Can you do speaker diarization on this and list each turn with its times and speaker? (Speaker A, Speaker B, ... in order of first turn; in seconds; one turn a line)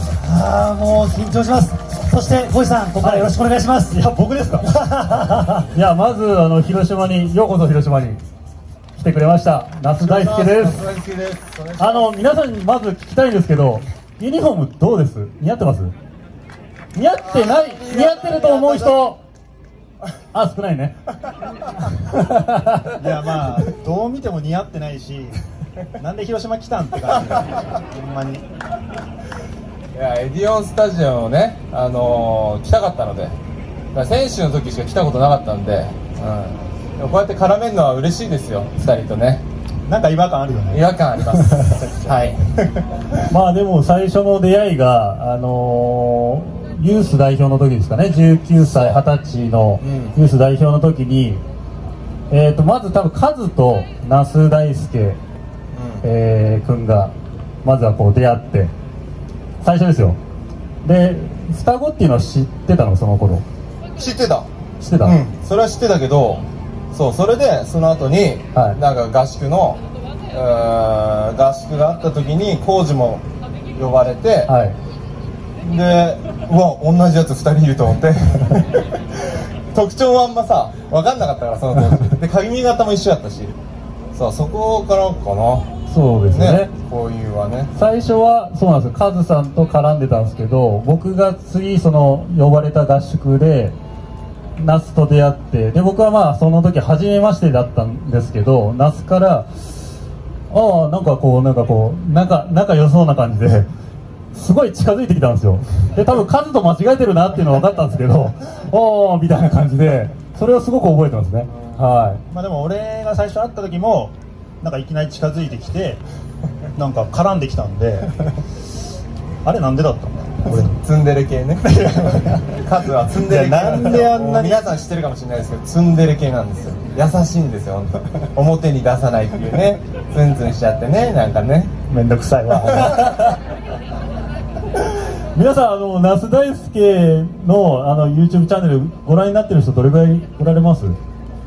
Speaker A: 0.2-4.0
Speaker B: 3.0-3.3
Speaker B: 3.9-4.7
Speaker A: 4.9-5.5
Speaker B: 5.6-8.2
Speaker B: 8.9-10.8
Speaker C: 9.9-12.1
Speaker B: 11.8-15.9
Speaker B: 16.9-19.2
Speaker C: 17.2-19.0
Speaker B: 20.3-20.9
Speaker B: 21.9-23.0
Speaker D: 23.0-25.4
Speaker D: 26.0-28.4
Speaker C: 29.9-33.4
Speaker C: 33.9-39.4
Speaker D: 39.9-41.2
Speaker C: 40.7-43.2
Speaker B: 43.3-51.4
Speaker C: 48.6-49.0
Speaker C: 49.8-50.2
Speaker B: 52.3-55.2
Speaker C: 55.7-56.1
Speaker B: 56.0-57.1
Speaker B: 57.6-58.7
Speaker B: 59.6-60.2
Speaker B: 60.8-63.4
Speaker C: 64.0-64.5
Speaker B: 64.8-65.2
Speaker C: 65.0-74.5
Speaker B: 74.5-74.8
Speaker C: 75.6-83.5
Speaker C: 84.1-85.7
Speaker B: 85.9-86.7
Speaker C: 86.3-87.7
Speaker B: 87.7-93.8
Speaker B: 94.6-99.5
Speaker B: 100.5-103.7
Speaker B: 104.3-112.2
Speaker C: 111.5-111.8
Speaker D: 112.3-116.0
Speaker D: 116.7-118.2
Speaker D: 119.4-120.7
Speaker C: 120.4-131.8
Speaker D: 121.6-122.5
Speaker D: 123.2-124.7
Speaker D: 131.9-133.2
Speaker C: 132.7-133.0
Speaker B: 135.3-141.0